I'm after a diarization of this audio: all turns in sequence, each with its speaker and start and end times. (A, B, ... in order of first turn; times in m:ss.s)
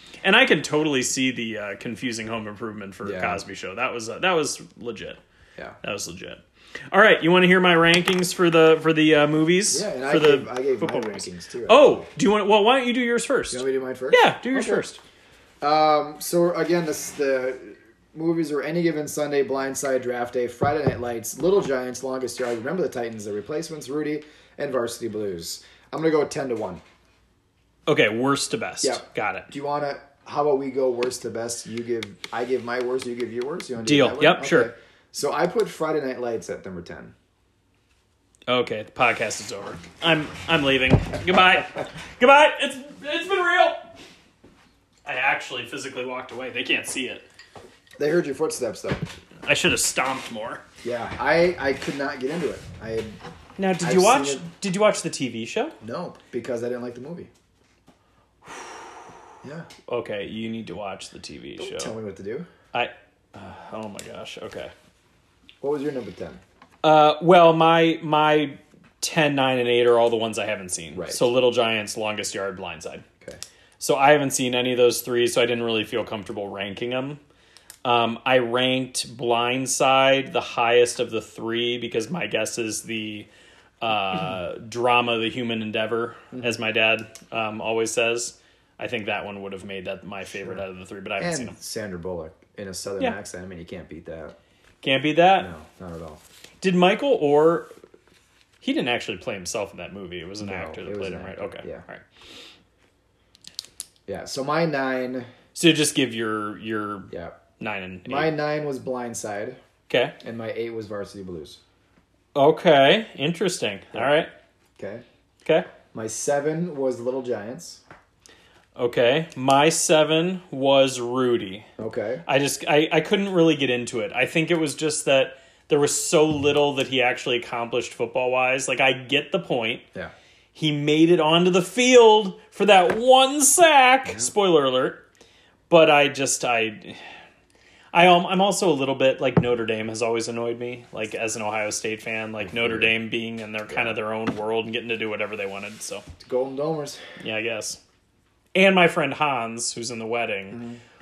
0:00.2-0:05.2 A
0:03.0-0:03.4 B
0:05.8-0:15.0 A
0:09.7-0:12.0 B
0:13.5-0:14.8 B
0:15.6-0:26.8 B
0:27.9-0:29.5 A
0:28.8-0:37.1 B
0:33.8-0:34.7 A
0:38.5-0:43.9 A
0:45.0-0:47.2 A
0:48.0-0:49.1 B
0:49.4-0:50.6 A
0:50.8-0:53.2 B
0:53.6-0:55.7 A
0:53.8-0:54.4 B
0:55.8-0:57.3 B
0:58.4-0:58.8 A
0:59.4-0:59.7 B
0:59.9-1:01.9 A
1:01.6-1:02.5 B
1:02.7-1:04.7 A
1:05.6-1:06.4 B
1:06.8-1:13.0 A
1:10.9-1:11.3 B
1:13.8-1:17.2 A
1:17.8-1:23.3 A
1:23.8-1:31.6 A
1:31.2-1:34.4 B
1:34.8-1:35.5 A
1:35.4-1:36.2 B
1:36.6-1:37.7 A
1:38.6-1:42.0 A
1:40.4-1:41.8 B
1:44.1-1:45.3 B
1:45.5-1:48.3 A
1:47.1-1:47.4 B
1:48.0-1:49.6 B
1:49.9-1:50.2 A
1:50.2-1:51.6 B
1:52.3-1:54.3 A
1:54.8-1:55.0 B
1:55.9-1:57.8 B
1:58.8-2:01.7 A
2:01.8-2:02.2 B
2:02.2-2:09.8 A
2:10.5-2:15.0 A
2:14.0-2:14.3 B
2:15.7-2:17.0 A
2:17.9-2:26.0 A
2:22.4-2:23.0 B
2:23.7-2:24.0 B
2:26.2-2:27.0 B
2:27.2-2:27.8 A
2:28.5-2:30.6 A
2:30.5-2:30.8 B